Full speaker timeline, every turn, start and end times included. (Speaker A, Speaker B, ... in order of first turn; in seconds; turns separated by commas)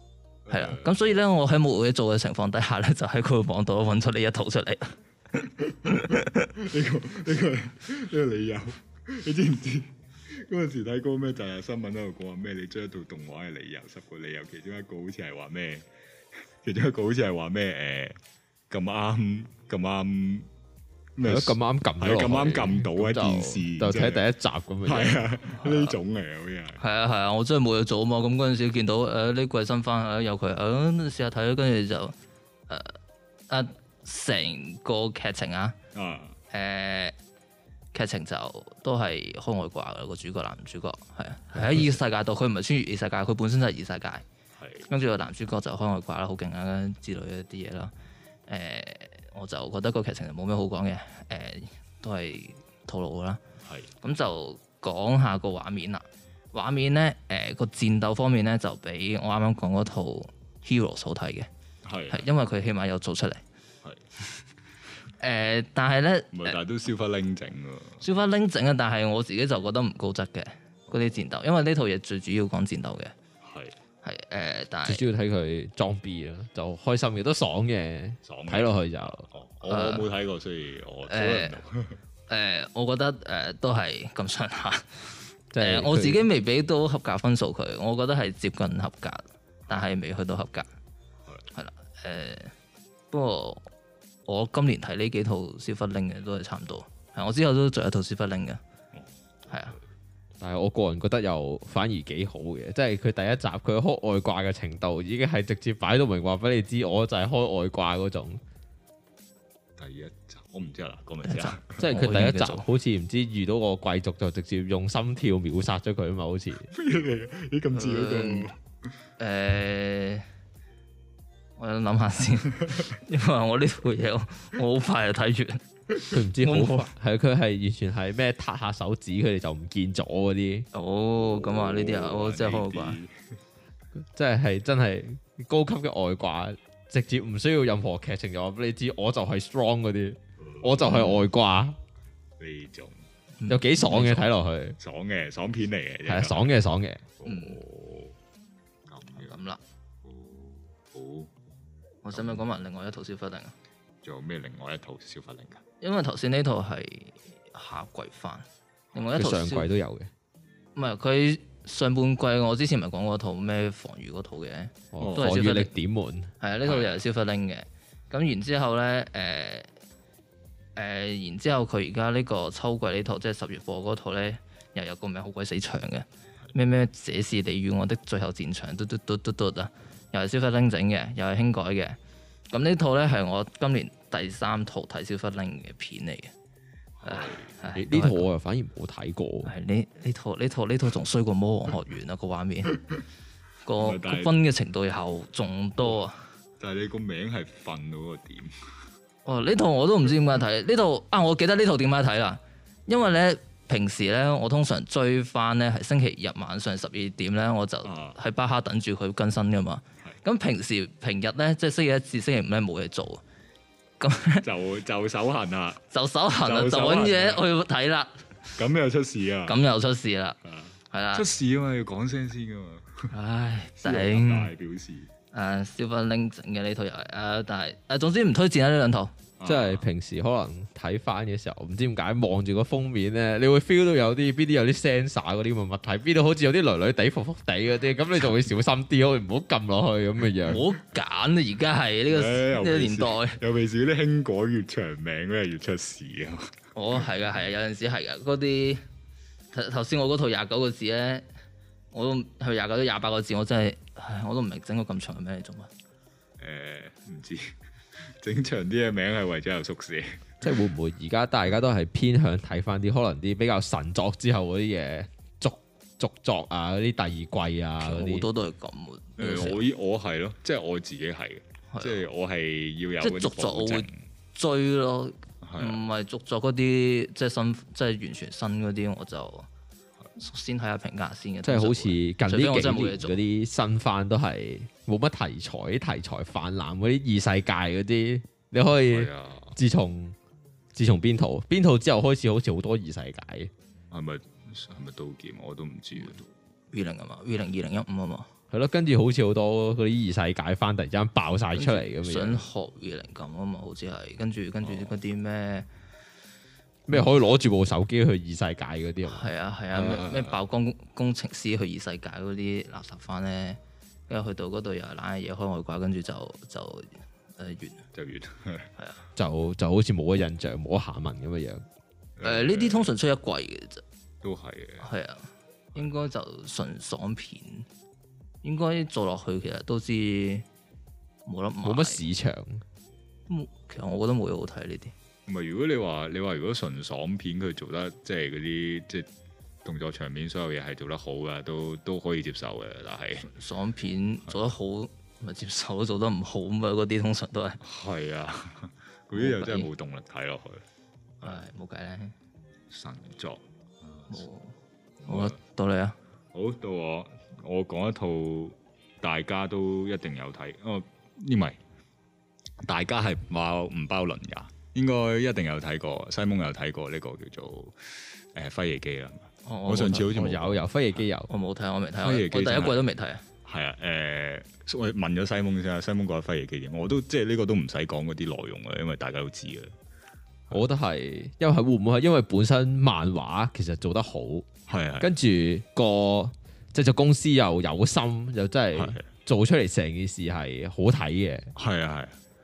Speaker A: 0.5-1.2, Speaker B: 0.5-6.3, Speaker A: 6.5-15.8, Speaker A: 16.6-18.2, Speaker A: 18.7-20.5, Speaker A: 21.1-24.2, Speaker C: 21.2-25.6, Speaker A: 24.8-26.8, Speaker B: 26.8-32.1, Speaker B: 32.7-33.0, Speaker B: 33.5-35.8, Speaker A: 35.9-36.4, Speaker B: 36.5-37.1, Speaker B: 37.9-44.2, Speaker A: 44.6-44.9, Speaker B: 44.9-47.9, Speaker B: 48.5-53.4, Speaker A: 53.6-53.9, Speaker B: 54.0-61.5, Speaker A: 61.8-62.3, Speaker B: 62.1-63.4, Speaker B: 65.2-66.6, Speaker A: 66.3-68.0, Speaker B: 68.0-73.1, Speaker A: 73.4-73.8, Speaker B: 74.0-75.0, Speaker C: 74.9-79.3, Speaker A: 78.2-82.0, Speaker B: 79.7-80.1, Speaker B: 81.1-81.6, Speaker B: 82.3-90.7, Speaker C: 85.5-86.2, Speaker B: 91.5-92.5, Speaker B: 93.1-93.7, Speaker B: 94.3-98.6, Speaker B: 99.5-99.8, Speaker C: 100.4-108.4, Speaker A: 109.8-111.8, Speaker B: 111.2-112.6, Speaker C: 111.8-116.7, Speaker A: 116.7-118.5, Speaker B: 117.7-118.5, Speaker B: 119.2-120.2, Speaker B: 121.6-125.6, Speaker C: 126.1-130.7, Speaker B: 126.4-126.9, Speaker B: 130.7-133.0, Speaker A: 131.2-133.1, Speaker C: 134.1-141.8, Speaker A: 140.4-141.0, Speaker A: 142.4-143.0, Speaker B: 143.4-144.3, Speaker C: 143.5-144.8, Speaker A: 144.8-146.5, Speaker C: 146.1-147.0, Speaker A: 147.2-148.1, Speaker B: 147.2-147.6, Speaker A: 148.9-149.3, Speaker B: 149.2-149.6, Speaker A: 150.0-151.3, Speaker B: 152.0-153.5, Speaker A: 152.1-152.4, Speaker A: 154.0-155.6, Speaker B: 155.8-159.7, Speaker C: 159.1-160.1, Speaker B: 160.8-165.7, Speaker C: 164.9-166.3, Speaker A: 165.0-165.3, Speaker B: 166.4-169.7, Speaker A: 166.6-167.0, Speaker B: 170.8-182.0, Speaker B: 182.5-186.3, Speaker A: 187.0-187.5, Speaker B: 187.0-188.3, Speaker C: 187.7-189.5, Speaker B: 189.4-192.8, Speaker B: 193.6-196.2, Speaker A: 193.8-194.3, Speaker A: 196.6-198.5, Speaker B: 199.2-213.2, Speaker A: 207.8-208.2, Speaker B: 214.0-214.4, Speaker A: 214.4-215.8, Speaker B: 215.9-218.2, Speaker A: 216.4-217.4, Speaker A: 218.6-219.6, Speaker B: 219.5-220.4, Speaker A: 220.5-223.1, Speaker B: 220.9-221.2, Speaker B: 223.1-224.5, Speaker A: 223.8-225.1, Speaker B: 225.3-229.1, Speaker A: 229.4-229.8, Speaker C: 229.4-240.6, Speaker B: 240.4-243.4, Speaker A: 242.1-246.5, Speaker B: 246.7-248.8, Speaker B: 249.5-251.2, Speaker B: 251.9-255.7, Speaker A: 256.4-260.2, Speaker C: 260.4-268.3, Speaker B: 267.8-269.6, Speaker A: 269.2-273.9, Speaker B: 271.7-272.0, Speaker B: 273.0-279.5, Speaker A: 275.4-275.8, Speaker B: 280.2-283.2, Speaker C: 281.4-290.1, Speaker A: 288.9-289.6, Speaker C: 290.7-293.5, Speaker A: 293.9-296.3, Speaker B: 296.7-298.3, Speaker C: 298.5-302.4, Speaker B: 301.6-305.7, Speaker C: 306.9-309.3, Speaker B: 309.1-317.8, Speaker A: 309.7-310.4, Speaker A: 317.9-318.7, Speaker C: 319.1-321.6, Speaker A: 322.2-322.9, Speaker B: 322.2-323.8, Speaker A: 324.2-324.9, Speaker B: 324.8-327.7, Speaker B: 328.4-330.4, Speaker B: 331.2-332.0, Speaker C: 331.6-332.6, Speaker B: 333.3-334.9, Speaker A: 335.3-339.1, Speaker A: 339.6-343.3, Speaker B: 343.2-347.6, Speaker A: 347.6-350.6, Speaker B: 349.1-349.7, Speaker B: 351.2-352.1, Speaker A: 352.7-354.2, Speaker B: 354.1-356.0, Speaker A: 355.0-355.3, Speaker A: 356.3-361.6, Speaker A: 362.6-370.6, Speaker B: 369.4-370.1, Speaker C: 370.1-371.3, Speaker B: 371.3-373.2, Speaker A: 372.0-372.9, Speaker A: 373.4-379.7, Speaker C: 380.5-384.5, Speaker A: 384.7-385.1, Speaker C: 385.0-391.5, Speaker A: 388.7-389.1, Speaker A: 391.6-392.2